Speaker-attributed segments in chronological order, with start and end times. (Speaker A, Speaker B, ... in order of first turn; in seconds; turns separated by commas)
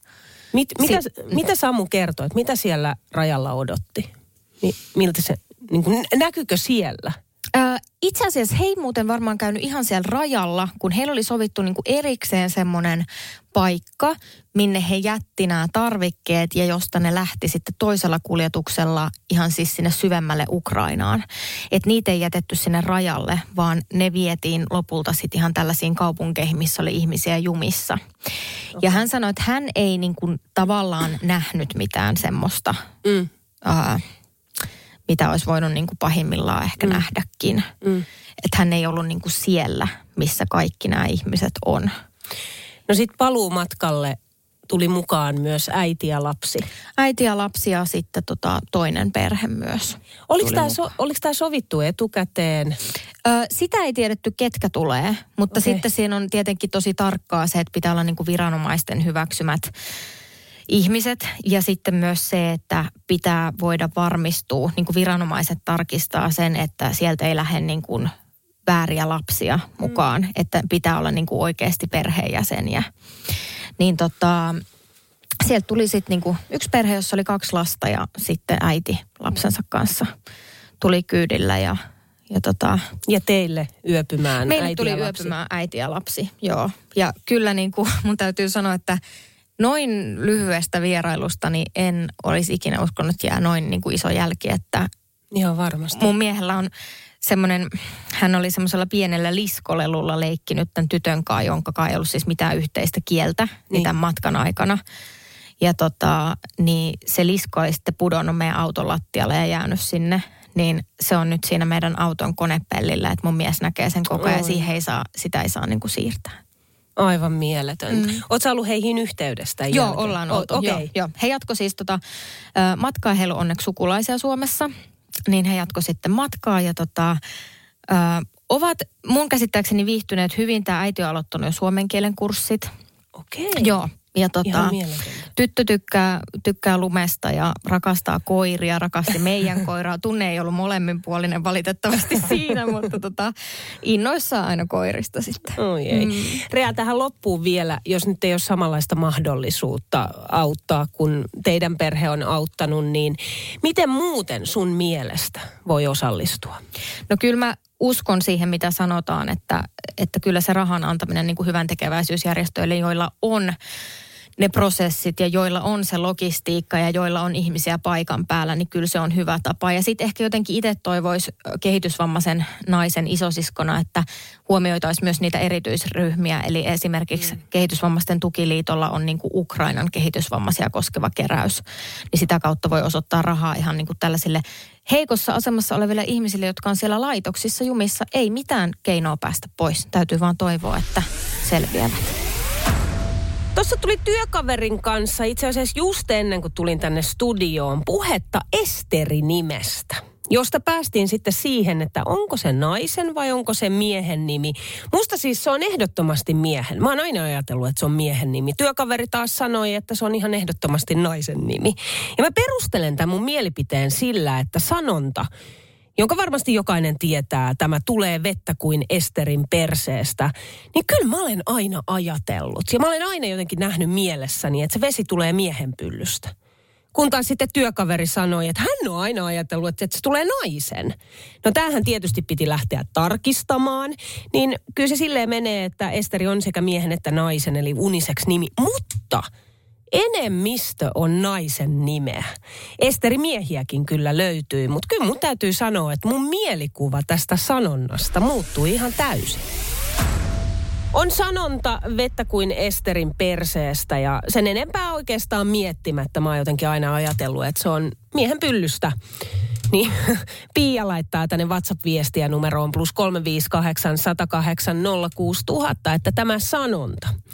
Speaker A: 0.5-4.1, Speaker A: 4.6-7.2, Speaker B: 7.5-28.0, Speaker B: 28.8-32.8, Speaker B: 33.6-34.0, Speaker B: 35.1-37.7, Speaker B: 38.4-41.9, Speaker A: 42.9-44.2, Speaker A: 44.7-46.7, Speaker B: 47.0-50.8, Speaker A: 50.3-52.8, Speaker B: 53.2-59.7, Speaker A: 55.5-55.8, Speaker B: 60.7-68.1, Speaker B: 68.7-72.9, Speaker B: 73.8-74.6, Speaker B: 75.4-80.1, Speaker B: 80.8-82.8, Speaker A: 83.1-85.3, Speaker B: 84.5-89.0, Speaker B: 89.6-94.9, Speaker A: 95.3-96.1, Speaker B: 96.0-96.7, Speaker B: 97.2-104.8, Speaker B: 105.6-116.4, Speaker A: 114.2-114.7, Speaker A: 117.0-120.9, Speaker B: 117.9-118.2, Speaker B: 119.7-122.0, Speaker B: 122.5-124.7, Speaker B: 125.3-127.2, Speaker B: 127.9-132.7, Speaker A: 133.2-133.8, Speaker B: 133.6-134.8, Speaker A: 134.4-135.3, Speaker B: 135.3-146.4, Speaker A: 145.6-156.6, Speaker B: 157.1-163.6, Speaker B: 164.4-192.1, Speaker A: 193.6-215.3, Speaker A: 216.0-226.3, Speaker A: 226.9-239.3, Speaker A: 239.9-249.4, Speaker A: 250.9-258.9, Speaker A: 259.7-267.1